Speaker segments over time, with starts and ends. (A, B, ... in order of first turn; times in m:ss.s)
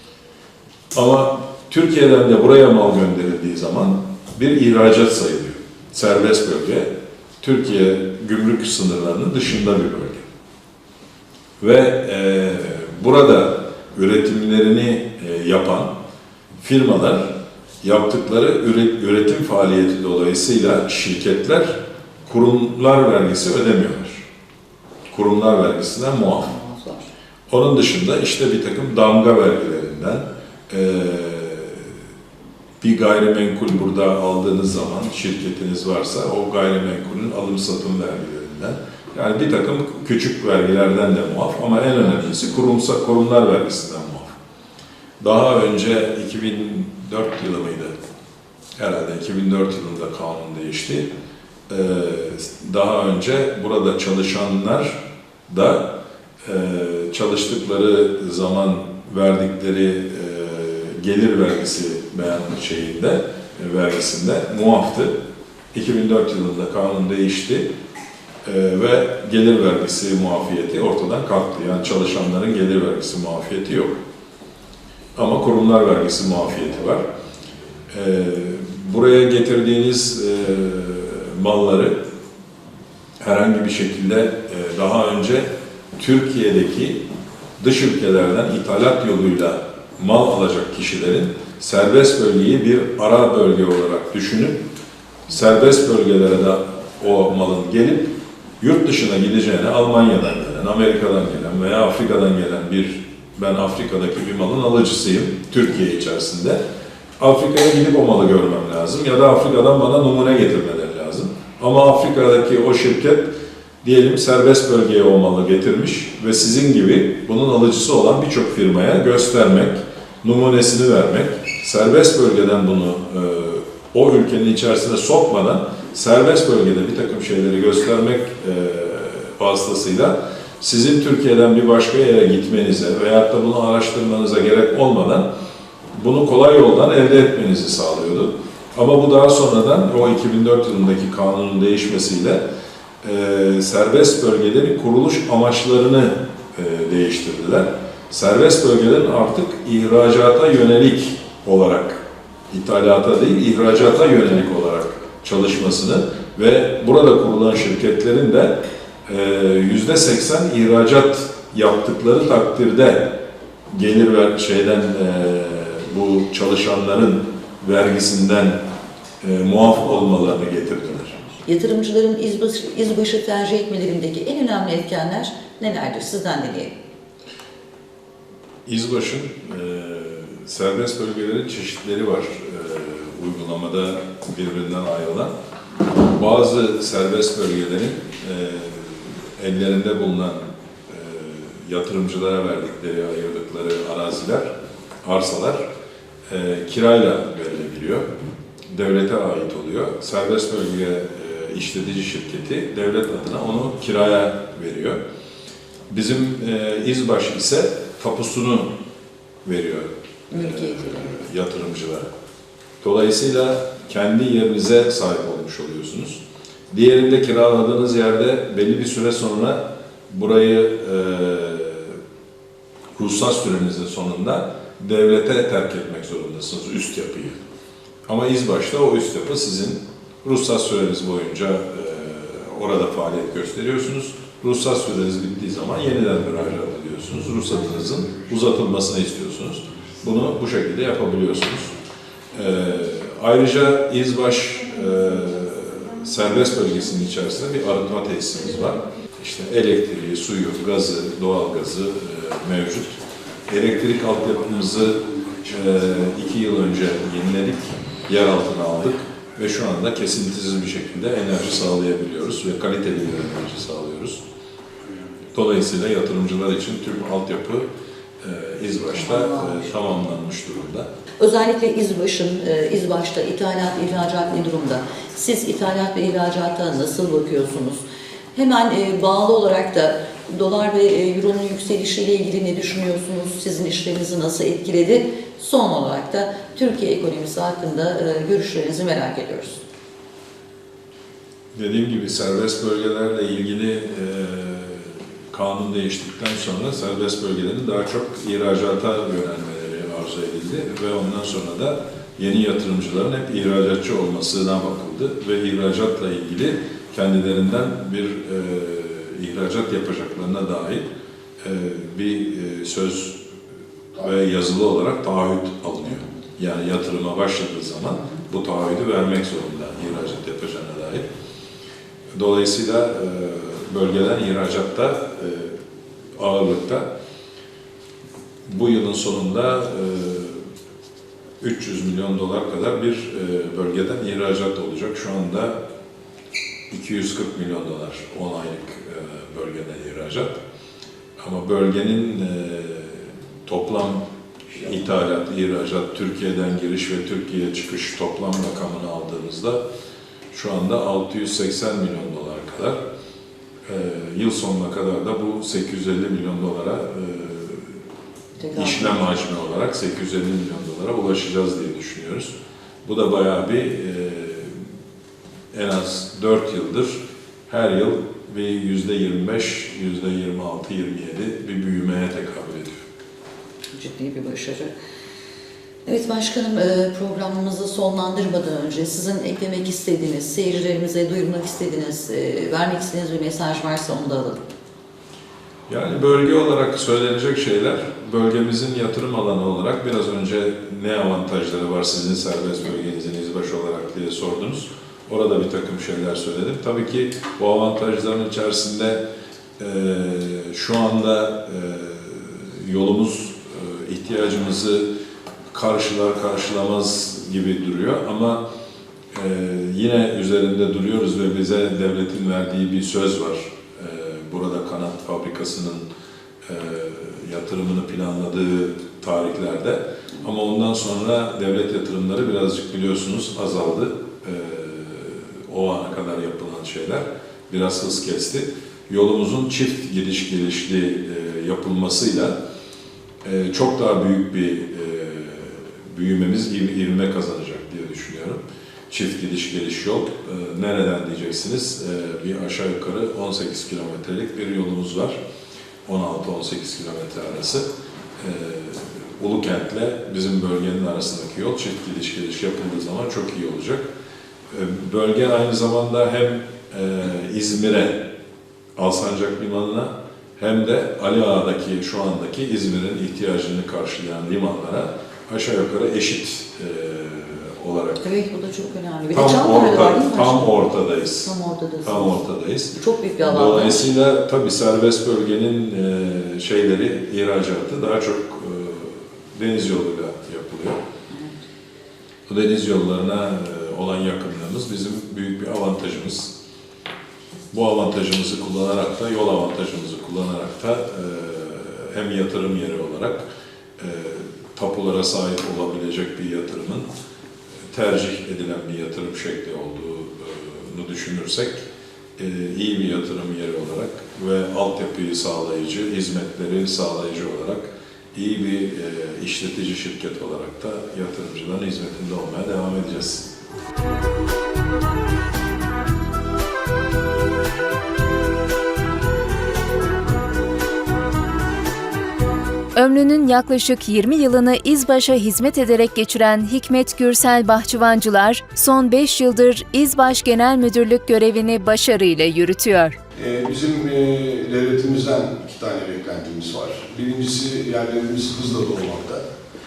0:00.9-0:06.9 A
0:07.4-0:10.2 A
0:11.6-0:15.9 A
0:16.6-0:24.2 A
0:25.1-0:26.5 A
0:26.4-0:27.1 B
0:27.5-0:31.9 A
0:32.8-0:44.3 A
0:45.2-0:47.9 A
0:48.8-0:51.1 A
0:51.7-0:55.9 A
0:56.4-1:05.1 A
1:05.7-1:07.7 A
1:08.4-1:14.0 A
1:15.2-1:17.0 A
1:17.9-1:22.0 A
1:23.2-1:27.0 A
1:27.6-1:34.6 A
1:35.3-1:46.6 A
1:47.2-2:15.3 A
2:15.9-2:22.4 A
2:23.0-2:43.1 A
2:43.7-2:48.6 A
2:49.2-2:51.2 A
2:51.4-2:56.7 B
2:58.6-3:05.3 A
3:06.1-3:14.5 A
3:15.0-3:15.6 A
3:16.3-3:18.1 A
3:18.7-3:25.0 A
3:25.9-3:28.7 A
3:29.4-3:32.1 A
3:30.3-3:31.2 B
3:32.8-3:42.0 A
3:43.0-3:47.4 A
3:48.1-4:01.7 A
4:02.3-4:12.9 A
4:13.5-4:24.2 A
4:25.3-4:27.7 A
4:28.2-4:30.9 A
4:28.9-4:29.6 B
4:31.2-4:37.8 B
4:38.3-4:49.6 B
4:51.5-5:10.8 A
5:11.4-5:13.2 A
5:14.0-5:21.0 A
5:22.1-5:25.6 A
5:26.2-5:26.9 A
5:28.5-5:30.4 A
5:31.4-5:35.6 A
5:36.7-5:40.4 A
5:41.2-5:49.6 A
5:50.3-5:52.8 A
5:53.6-5:57.8 A
5:58.4-5:59.0 B
5:58.5-6:02.3 A
6:02.8-6:04.6 A
6:05.5-6:12.8 A
6:13.7-6:14.7 B
6:15.8-6:24.4 B
6:25.7-6:39.0 A
6:39.6-6:44.8 A
6:45.5-6:48.4 A
6:49.1-6:55.8 A
6:56.4-7:12.4 A
7:13.2-7:25.2 A
7:25.8-7:27.6 A
7:28.2-7:33.9 A
7:34.5-7:38.0 A
7:38.8-7:48.0 A
7:48.0-7:50.6 B
7:49.1-7:51.3 A
7:51.2-7:52.2 B
7:51.8-8:00.8 A
7:52.7-7:53.8 B
8:02.3-8:06.3 A
8:07.5-8:13.2 A
8:13.8-8:16.9 A
8:17.7-8:21.6 A
8:22.2-8:33.3 A
8:42.8-8:53.0 C
8:53.2-8:59.2 D